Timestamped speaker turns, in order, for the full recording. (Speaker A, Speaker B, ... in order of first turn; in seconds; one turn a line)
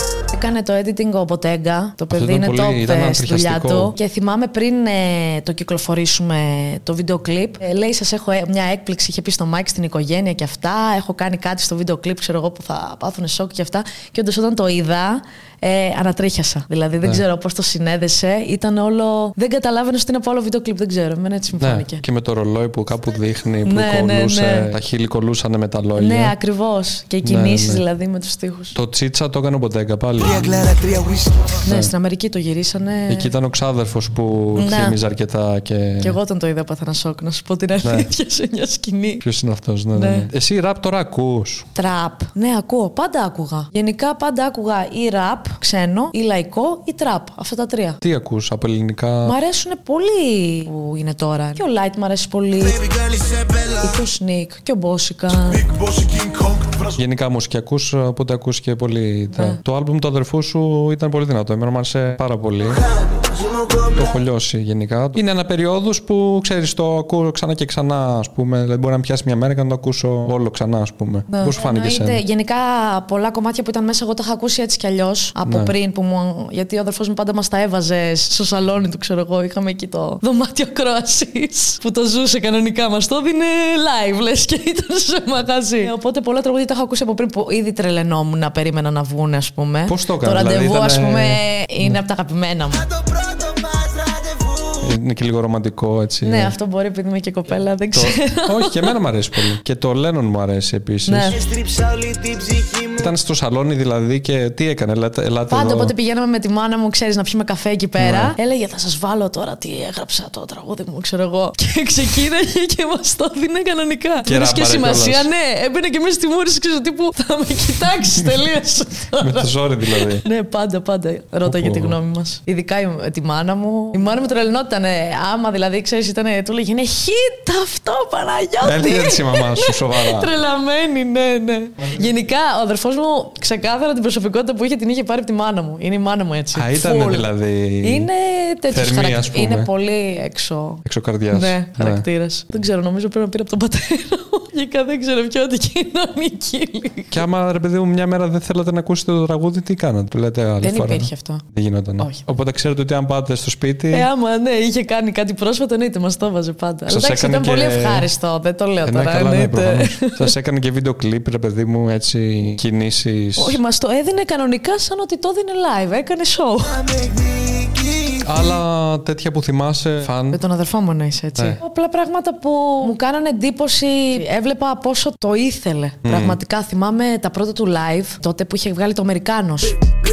Speaker A: 0.3-22.0
Speaker B: 2.1-3.9
Speaker B: 21.6-26.4
Speaker A: 23.6-24.8
Speaker A: 25.9-28.8
Speaker B: 27.2-27.8
Speaker B: 28.7-30.7
Speaker A: 30.3-33.3
Speaker B: 31.6-31.9
Speaker B: 33.1-36.2
Speaker A: 34.5-35.0
Speaker A: 36.0-39.2
Speaker B: 37.8-38.1
Speaker B: 39.2-41.7
Speaker A: 39.9-40.3
Speaker A: 41.8-48.0
Speaker B: 48.0-49.4
Speaker A: 49.2-52.9
Speaker C: 53.2-53.6
Speaker A: 53.8-55.8
Speaker C: 55.7-56.8
Speaker B: 56.9-62.8
Speaker A: 59.3-59.6
Speaker B: 63.9-72.2
Speaker A: 71.3-92.9
Speaker B: 75.5-75.7
Speaker B: 89.9-92.0
Speaker C: 93.0-94.7
Speaker B: 94.8-96.5
Speaker A: 96.2-99.0
Speaker B: 97.9-101.4
Speaker A: 101.1-101.4
Speaker C: 101.5-103.0
Speaker B: 103.0-105.9
Speaker A: 105.5-137.3
Speaker B: 108.0-108.3
Speaker B: 114.3-115.3
Speaker B: 119.2-120.2
Speaker B: 121.4-122.0
Speaker B: 128.6-130.3
Speaker B: 136.5-138.1
Speaker A: 137.8-147.2
Speaker B: 138.7-139.7
Speaker B: 140.8-142.1
Speaker B: 147.1-154.1
Speaker A: 150.6-151.4
Speaker A: 152.0-152.3
Speaker A: 153.9-160.3
Speaker B: 156.9-158.1
Speaker B: 158.8-163.6
Speaker A: 163.4-167.3
Speaker B: 168.2-170.4
Speaker A: 170.3-179.9
Speaker B: 176.0-176.4